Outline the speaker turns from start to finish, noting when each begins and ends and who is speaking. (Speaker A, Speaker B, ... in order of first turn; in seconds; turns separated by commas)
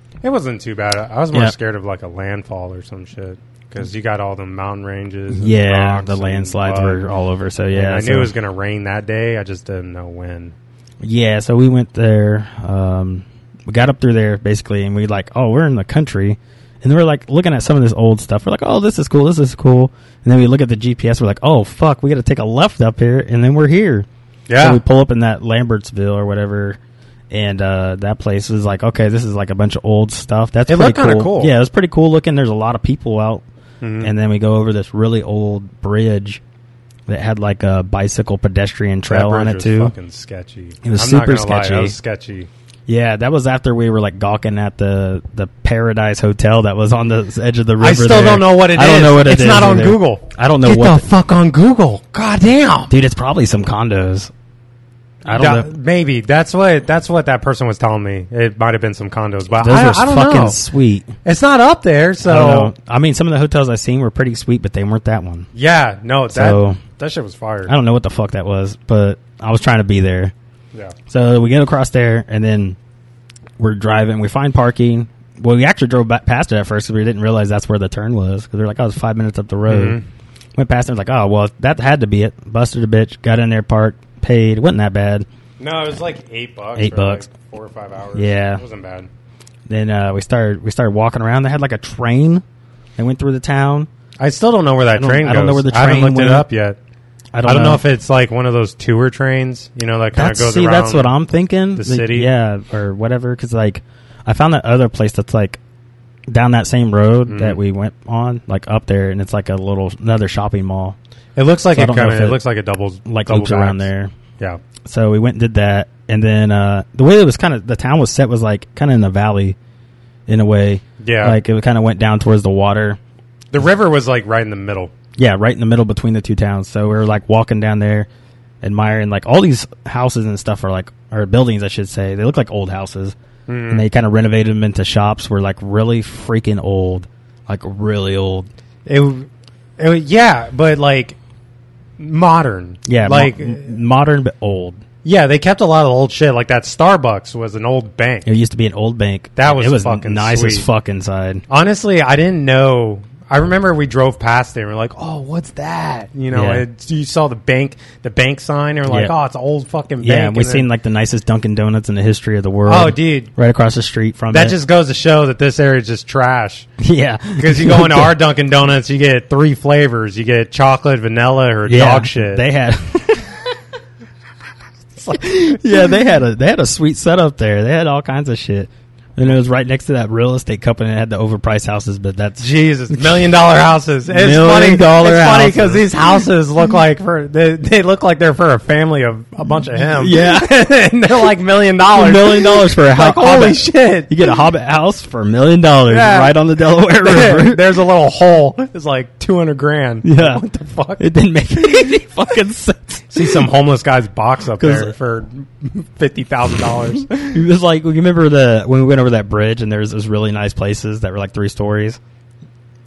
Speaker A: 0.2-7.0, Speaker B: 5.3-8.3, Speaker A: 7.7-10.6, Speaker B: 11.0-24.1, Speaker A: 24.5-24.8, Speaker B: 24.6-26.8, Speaker B: 27.3-33.4, Speaker A: 30.7-31.5, Speaker A: 33.8-34.1, Speaker B: 34.0-36.4, Speaker B: 37.1-39.9, Speaker A: 39.1-42.5, Speaker B: 40.8-41.9, Speaker B: 42.9-51.1, Speaker A: 47.8-52.9, Speaker B: 52.9-54.3, Speaker B: 55.2-55.7, Speaker A: 55.3-60.6, Speaker B: 59.6-61.1, Speaker A: 61.2-62.7, Speaker B: 62.2-65.5, Speaker A: 65.5-67.7, Speaker B: 66.3-66.8, Speaker B: 67.7-70.3, Speaker B: 71.1-72.8, Speaker B: 73.6-80.0, Speaker A: 79.7-80.0, Speaker B: 80.6-85.3, Speaker A: 85.6-89.1, Speaker B: 86.8-87.3, Speaker B: 88.2-88.6, Speaker B: 89.7-92.4, Speaker B: 93.0-93.9, Speaker A: 94.2-96.8, Speaker B: 94.9-96.5, Speaker B: 97.3-97.8, Speaker A: 97.4-101.1, Speaker B: 100.1-105.6, Speaker A: 101.8-102.3, Speaker B: 106.3-111.0, Speaker A: 107.3-107.6, Speaker A: 111.3-113.8, Speaker B: 111.7-112.4, Speaker B: 113.1-114.1, Speaker B: 114.8-119.6, Speaker B: 120.3-123.0, Speaker A: 121.0-121.4, Speaker A: 123.5-124.9, Speaker B: 125.2-128.1, Speaker B: 128.6-133.2, Speaker A: 133.5-133.8, Speaker B: 133.7-138.5, Speaker A: 138.8-141.2, Speaker A: 142.0-143.7, Speaker B: 142.8-144.8, Speaker A: 145.0-148.3, Speaker B: 148.2-151.4, Speaker A: 149.3-150.7, Speaker A: 151.5-160.7, Speaker B: 156.3-156.6, Speaker B: 158.9-159.1, Speaker B: 160.0-164.6, Speaker A: 162.7-163.3, Speaker A: 164.3-166.7, Speaker B: 166.8-168.1, Speaker A: 167.4-172.4, Speaker B: 171.7-173.3, Speaker A: 175.0-175.3, Speaker B: 175.1-183.3, Speaker A: 182.4-194.3, Speaker B: 184.1-185.9, Speaker B: 189.9-190.6, Speaker B: 191.9-197.6, Speaker A: 195.9-196.3, Speaker A: 197.0-201.1, Speaker B: 200.0-200.4, Speaker B: 201.0-203.5, Speaker A: 203.1-207.4, Speaker B: 204.6-204.9, Speaker B: 207.1-212.0